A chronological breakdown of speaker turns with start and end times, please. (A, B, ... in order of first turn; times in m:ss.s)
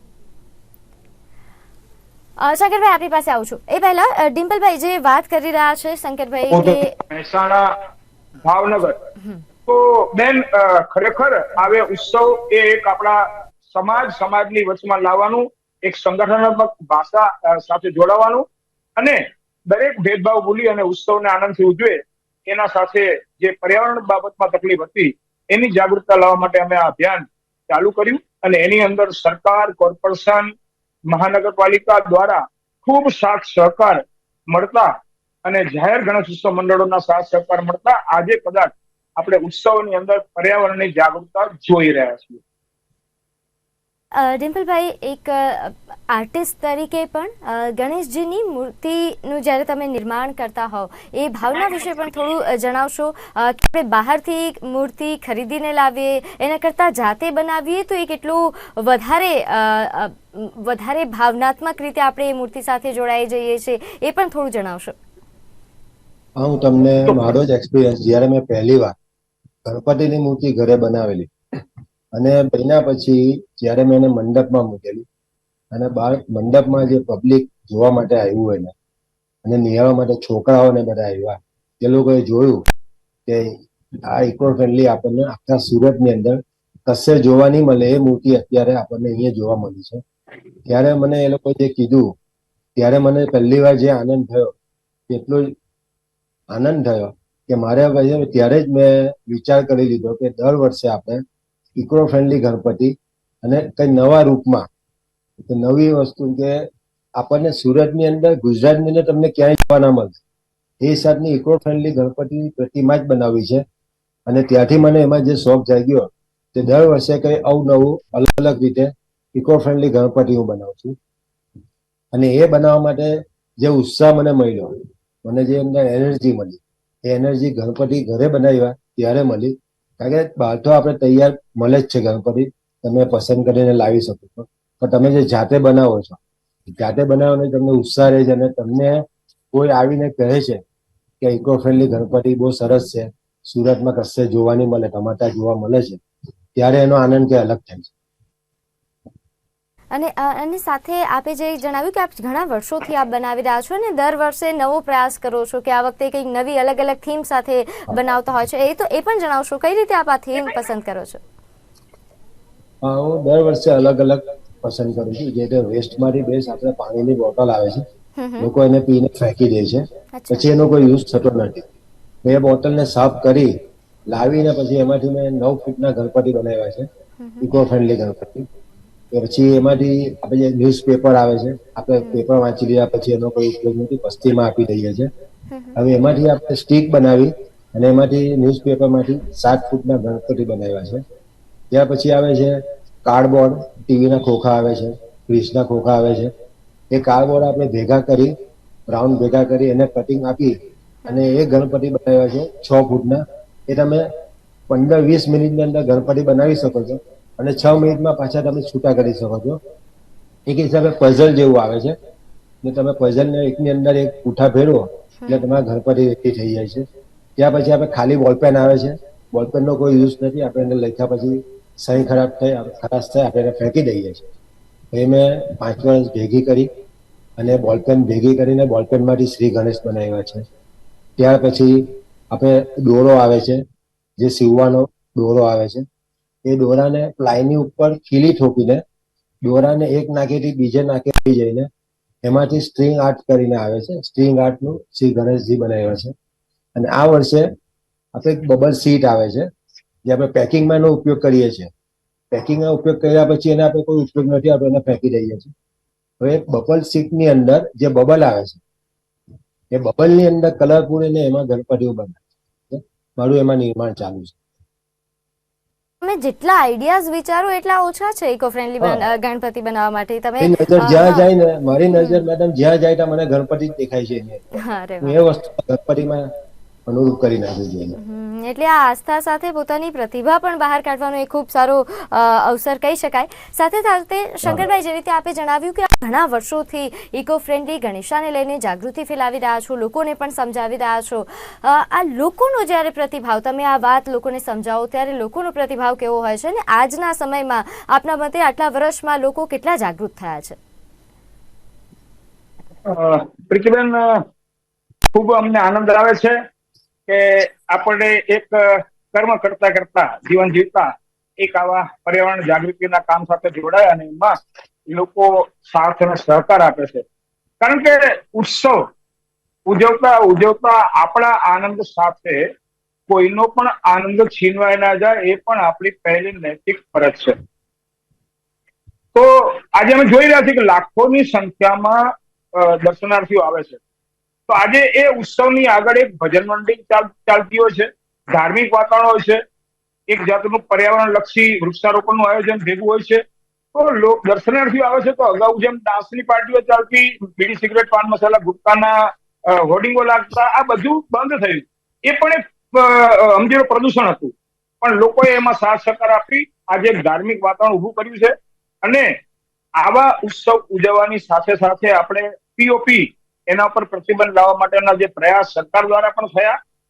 0:02.4-0:07.0 A
0:06.5-0:07.7 B
0:08.4-0:09.0 B
0:09.7-0:18.4 B
0:19.0-0:30.5 B
0:31.1-0:34.9 B
0:35.4-0:42.4 B
0:44.1-1:04.9 A
1:06.4-1:09.0 C
1:09.6-1:11.3 C
1:12.1-1:15.0 C
1:15.7-1:18.7 C
1:19.4-1:22.6 C
1:23.2-1:23.6 C
1:24.1-1:30.0 C
1:30.6-1:32.1 C
1:32.8-1:34.5 C
1:35.1-1:35.6 C
1:36.5-1:41.2 C
1:41.7-1:44.7 C
1:45.4-1:46.6 C
1:47.2-1:50.2 C
1:50.8-1:53.6 C
1:54.3-2:01.0 C
2:02.1-2:20.6 C
2:21.2-2:26.0 C
2:26.6-2:27.9 C
2:29.9-2:41.2 A
2:42.8-2:47.8 C
2:48.2-2:48.5 A
2:48.4-2:51.6 C
2:50.1-2:50.5 A
2:52.2-2:53.5 C
2:54.1-2:56.9 C
2:57.2-2:57.5 A
2:57.4-2:58.5 C
2:59.1-3:05.1 C
3:02.0-3:02.2 A
3:05.5-3:05.8 A
3:05.7-3:11.0 C
3:11.7-3:16.3 C
3:16.9-3:18.3 C
3:18.9-3:20.5 C
3:21.0-3:24.1 C
3:24.7-3:29.6 C
3:30.5-3:32.0 C
3:32.6-3:36.8 C
3:35.2-3:35.5 A
3:37.4-3:44.3 C
3:44.9-3:46.7 C
3:47.4-3:50.4 C
3:51.2-3:53.6 C
3:54.2-3:55.8 C
3:56.4-3:58.8 C
3:59.4-4:01.7 C
4:02.2-4:06.1 C
4:06.7-4:07.5 C
4:08.1-4:09.5 C
4:10.0-4:11.7 C
4:12.3-4:15.5 C
4:16.2-4:18.6 C
4:19.7-4:24.4 C
4:26.0-4:31.3 A
4:30.4-4:34.5 C
4:32.0-4:32.2 A
4:34.5-4:35.2 A
4:35.0-4:36.3 C
4:36.9-4:38.0 C
4:37.9-5:00.6 A
5:02.8-5:04.2 B
5:05.1-5:06.4 B
5:07.1-5:14.4 B
5:14.9-5:17.0 B
5:17.6-5:18.9 B
5:19.7-5:22.5 B
5:23.1-5:27.4 B
5:29.1-5:32.0 B
5:32.5-5:33.8 B
5:34.5-5:39.4 B
5:40.1-5:43.2 B
5:43.7-5:59.1 B
5:59.8-6:06.6 B